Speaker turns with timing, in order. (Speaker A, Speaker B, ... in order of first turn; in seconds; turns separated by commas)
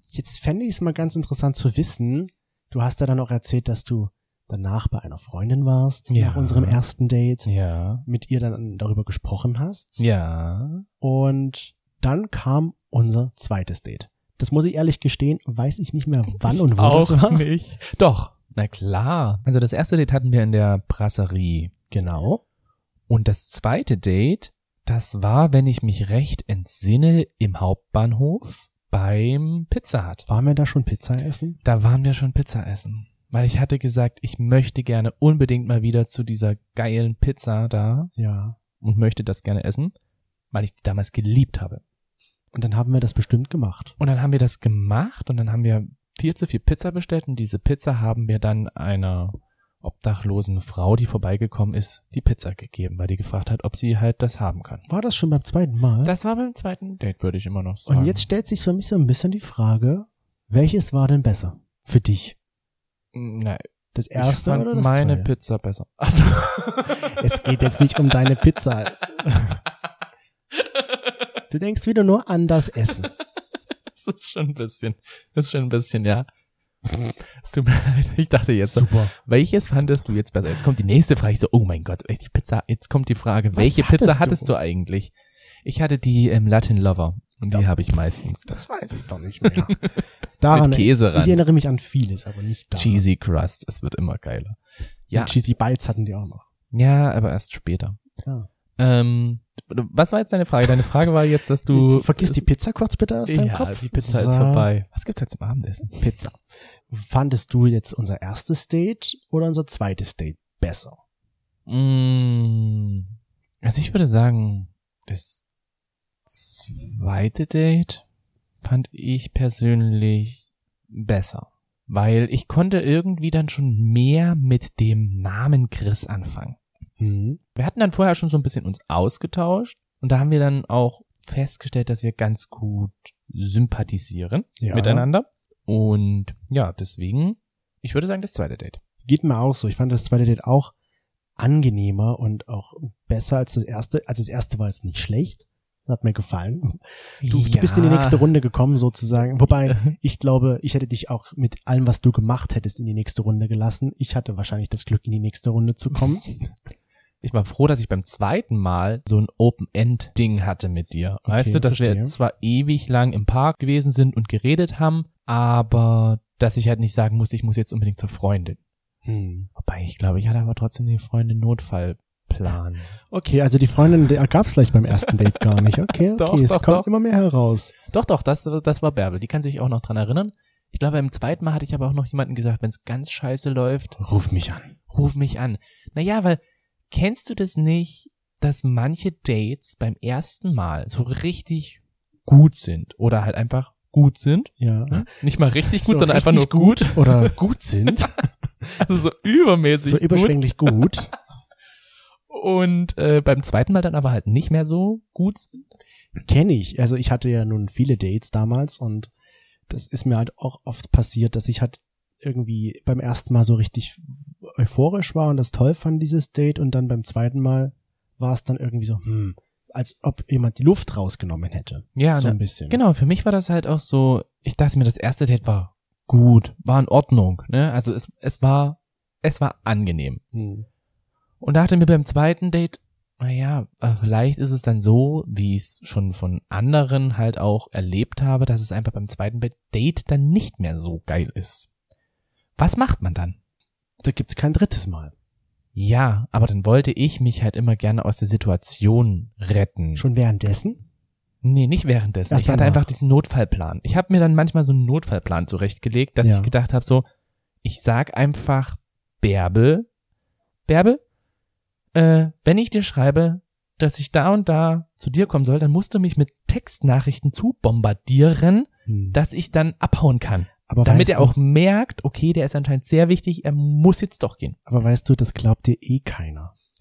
Speaker A: 0.1-7.5, Speaker B: 6.1-6.8, Speaker B: 7.4-8.0, Speaker A: 8.1-10.0, Speaker B: 10.0-10.8, Speaker A: 11.0-17.5, Speaker B: 16.4-21.7, Speaker A: 21.9-22.4, Speaker B: 23.1-30.2, Speaker A: 30.3-31.6, Speaker B: 31.6-38.1, Speaker A: 38.1-38.6, Speaker B: 38.8-39.9, Speaker B: 40.5-41.8, Speaker A: 42.5-43.9, Speaker B: 44.0-54.9, Speaker A: 54.9-56.1, Speaker B: 56.0-58.3, Speaker A: 57.9-62.4, Speaker B: 63.1-63.6, Speaker A: 63.9-65.3, Speaker B: 64.2-67.2, Speaker A: 66.8-69.6, Speaker B: 70.5-71.2, Speaker A: 71.5-73.1, Speaker B: 74.0-76.3, Speaker B: 77.0-85.1, Speaker A: 78.7-79.1, Speaker A: 83.5-84.5, Speaker B: 85.6-88.7, Speaker A: 88.4-89.8, Speaker B: 89.4-91.4, Speaker A: 90.4-93.0, Speaker B: 92.7-94.6, Speaker B: 95.1-95.3, Speaker A: 95.1-96.5, Speaker B: 96.7-98.0, Speaker B: 98.8-102.4, Speaker A: 101.7-104.7, Speaker B: 103.3-106.0, Speaker A: 106.0-111.0, Speaker B: 111.7-113.1, Speaker B: 113.6-115.4, Speaker B: 116.2-118.0, Speaker B: 118.6-126.6, Speaker A: 127.0-127.4, Speaker B: 127.5-138.8, Speaker A: 134.6-135.1, Speaker A: 139.0-140.7, Speaker A: 141.4-156.5, Speaker B: 147.2-148.3, Speaker B: 157.2-168.6, Speaker A: 161.2-162.1, Speaker A: 169.0-169.5, Speaker B: 169.6-172.9, Speaker A: 173.1-177.7, Speaker B: 176.1-176.9, Speaker B: 177.9-184.0, Speaker A: 184.0-184.7, Speaker B: 184.9-197.4, Speaker A: 194.6-195.1, Speaker A: 195.7-198.8, Speaker B: 198.8-200.7, Speaker A: 199.8-201.1, Speaker B: 202.3-205.5, Speaker A: 206.2-209.1, Speaker A: 209.7-222.8, Speaker B: 221.9-230.2, Speaker A: 230.3-230.7, Speaker B: 231.4-241.7, Speaker B: 242.6-243.3, Speaker A: 244.0-245.1, Speaker B: 245.7-250.0, Speaker A: 249.9-250.8, Speaker B: 251.4-257.1, Speaker A: 252.3-252.9, Speaker A: 256.2-256.5, Speaker B: 257.6-259.9, Speaker B: 260.7-261.0, Speaker B: 261.9-274.6, Speaker A: 268.9-269.2, Speaker A: 270.7-271.3, Speaker A: 274.7-276.5